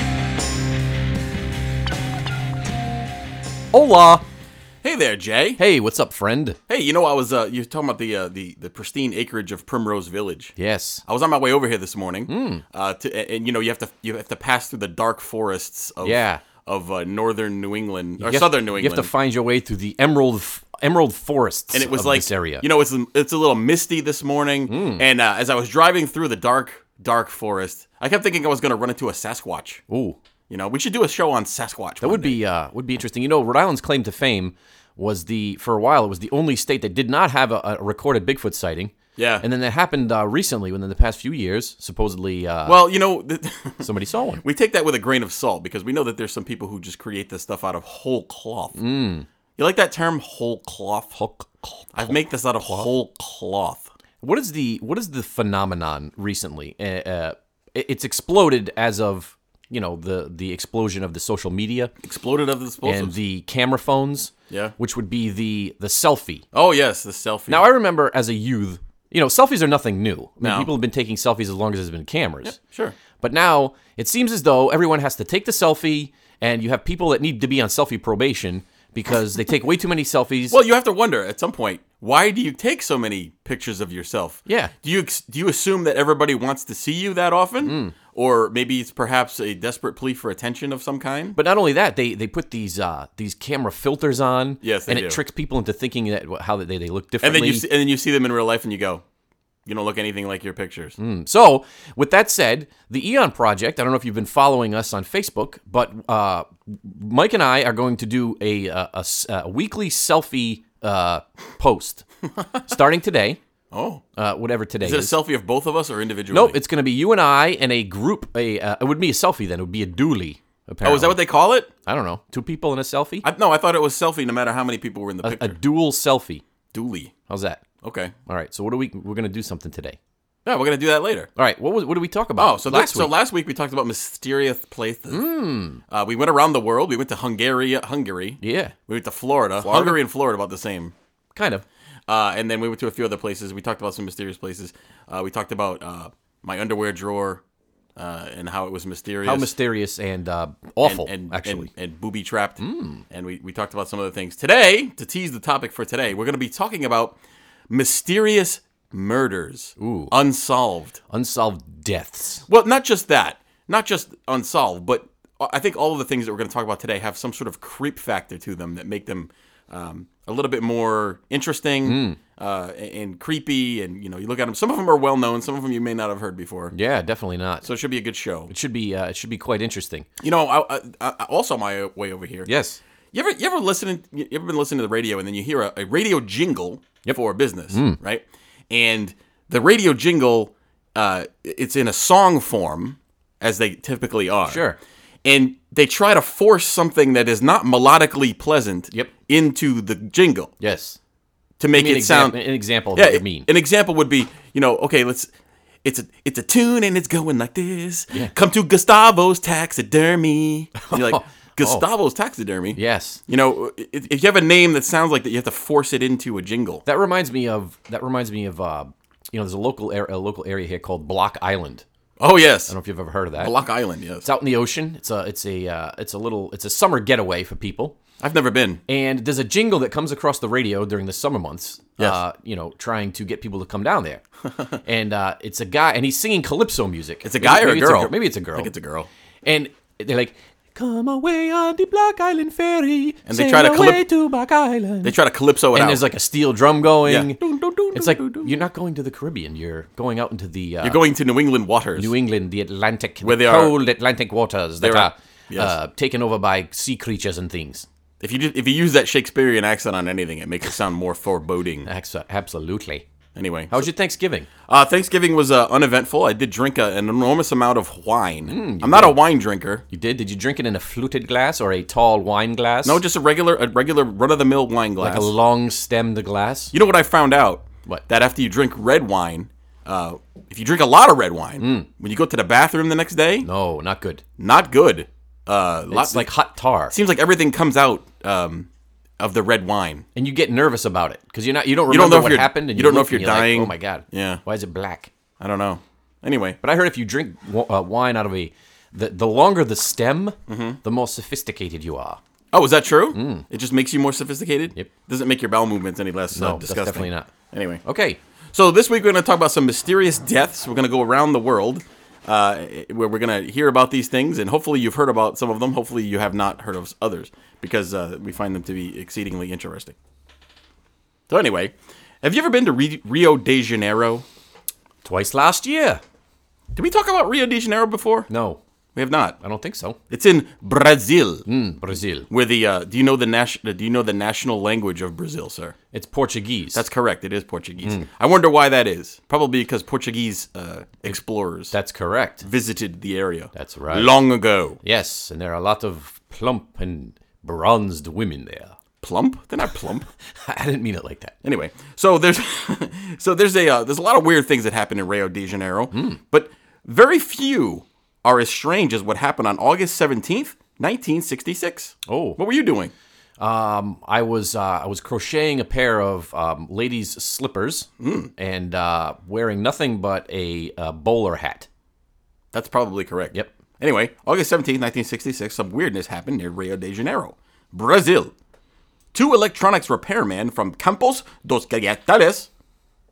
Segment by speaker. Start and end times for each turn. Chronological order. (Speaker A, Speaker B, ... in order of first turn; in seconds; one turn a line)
Speaker A: 3.7-4.2
Speaker B: 4.8-5.6
Speaker A: 5.6-6.6
Speaker B: 6.7-10.5
Speaker A: 10.6-11.0
Speaker B: 11.1-19.1
Speaker A: 12.3-12.6
Speaker A: 16.0-16.4
Speaker A: 18.2-22.6
Speaker B: 21.7-29.8
Speaker A: 24.7-25.1
Speaker A: 29.9-30.2
Speaker B: 30.5-32.4
Speaker A: 32.0-42.8
Speaker B: 39.2-39.5
Speaker B: 42.7-43.9
Speaker A: 43.8-44.4
Speaker B: 44.4-48.8
Speaker A: 48.8-49.3
Speaker B: 49.6-51.2
Speaker A: 51.1-52.1
Speaker B: 52.0-53.9
Speaker A: 54.2-61.9
Speaker B: 62.0-63.1
Speaker A: 62.8-66.5
Speaker B: 64.5-64.8
Speaker B: 66.5-67.7
Speaker A: 67.5-72.6
Speaker B: 70.4-70.7
Speaker B: 72.4-73.0
Speaker A: 73.2-80.6
Speaker B: 80.5-91.4
Speaker A: 84.5-84.7
Speaker A: 87.6-88.0
Speaker A: 91.3-97.7
Speaker B: 94.6-95.2
Speaker B: 97.2-99.0
Speaker B: 99.7-101.0
Speaker A: 101.0-112.1
Speaker A: 112.7-113.4
Speaker B: 113.7-114.0
Speaker A: 114.2-115.2
Speaker B: 114.8-116.6
Speaker A: 116.3-121.2
Speaker B: 120.8-121.7
Speaker A: 121.8-123.3
Speaker B: 123.2-125.6
Speaker A: 125.2-126.4
Speaker B: 126.7-127.1
Speaker A: 127.3-127.6
Speaker B: 127.8-128.1
Speaker A: 128.3-130.0
Speaker B: 130.5-131.3
Speaker A: 131.4-133.1
Speaker B: 132.4-135.3
Speaker A: 135.1-135.8
Speaker B: 135.9-140.9
Speaker A: 138.4-138.7
Speaker A: 139.6-140.0
Speaker A: 141.3-141.7
Speaker B: 142.1-147.4
Speaker B: 148.0-149.5
Speaker A: 149.2-151.7
Speaker B: 150.8-157.2
Speaker A: 152.6-153.0
Speaker B: 157.7-161.0
Speaker A: 159.8-160.1
Speaker A: 161.1-162.4
Speaker B: 162.5-176.7
Speaker A: 171.8-172.2
Speaker A: 176.7-177.7
Speaker B: 177.6-178.5
Speaker A: 178.5-180.1
Speaker B: 180.2-182.5
Speaker A: 182.5-182.8
Speaker B: 183.1-194.6
Speaker A: 187.7-188.0
Speaker A: 194.5-194.8
Speaker B: 195.2-200.5
Speaker A: 200.6-201.0
Speaker B: 201.6-202.4
Speaker A: 201.7-203.5
Speaker B: 202.9-205.3
Speaker B: 205.8-216.8
Speaker A: 210.8-211.9
Speaker A: 212.8-213.2
Speaker A: 216.8-221.8
Speaker B: 222.2-222.7
Speaker A: 222.7-223.5
Speaker B: 223.4-224.3
Speaker A: 224.2-228.0
Speaker B: 228.2-228.8
Speaker A: 228.9-234.2
Speaker A: 234.8-238.7
Speaker B: 237.2-239.1
Speaker A: 239.4-245.2
Speaker B: 243.3-244.0
Speaker B: 245.0-246.0
Speaker A: 245.7-247.4
Speaker B: 247.1-248.5
Speaker A: 247.9-251.0
Speaker B: 250.8-252.1
Speaker A: 252.0-257.9
Speaker B: 253.2-253.8
Speaker B: 254.8-255.8
Speaker B: 258.2-261.9
Speaker A: 261.9-263.0
Speaker B: 263.4-263.9
Speaker A: 263.7-264.5
Speaker B: 264.7-269.8
Speaker A: 268.5-269.2
Speaker A: 269.9-273.0
Speaker B: 272.8-275.3
Speaker A: 275.0-276.7
Speaker B: 276.7-283.5
Speaker A: 281.6-281.9
Speaker A: 283.4-284.2
Speaker B: 284.4-286.3
Speaker A: 285.9-286.9
Speaker B: 286.9-288.7
Speaker B: 289.2-290.1
Speaker A: 290.1-295.1
Speaker B: 291.9-294.4
Speaker B: 295.4-296.6
Speaker A: 296.6-302.2
Speaker B: 300.5-300.8
Speaker B: 302.5-307.8
Speaker A: 303.1-303.5
Speaker A: 306.3-307.3
Speaker A: 307.9-308.2
Speaker B: 308.5-319.9
Speaker B: 321.3-324.2
Speaker A: 325.0-326.0
Speaker B: 326.7-328.3
Speaker A: 328.3-328.6
Speaker B: 328.9-329.4
Speaker A: 329.4-330.0
Speaker B: 330.1-331.4
Speaker A: 331.5-332.3
Speaker B: 332.3-335.8
Speaker A: 335.9-336.8
Speaker B: 336.7-341.7
Speaker A: 341.7-342.4
Speaker B: 342.4-344.8
Speaker A: 343.6-344.1
Speaker A: 344.8-348.8
Speaker B: 349.0-350.1
Speaker A: 350.5-351.4
Speaker B: 351.4-362.9
Speaker A: 355.9-356.2
Speaker A: 362.1-362.4
Speaker A: 363.4-371.7
Speaker B: 368.0-368.3
Speaker B: 372.5-378.3
Speaker B: 379.1-382.5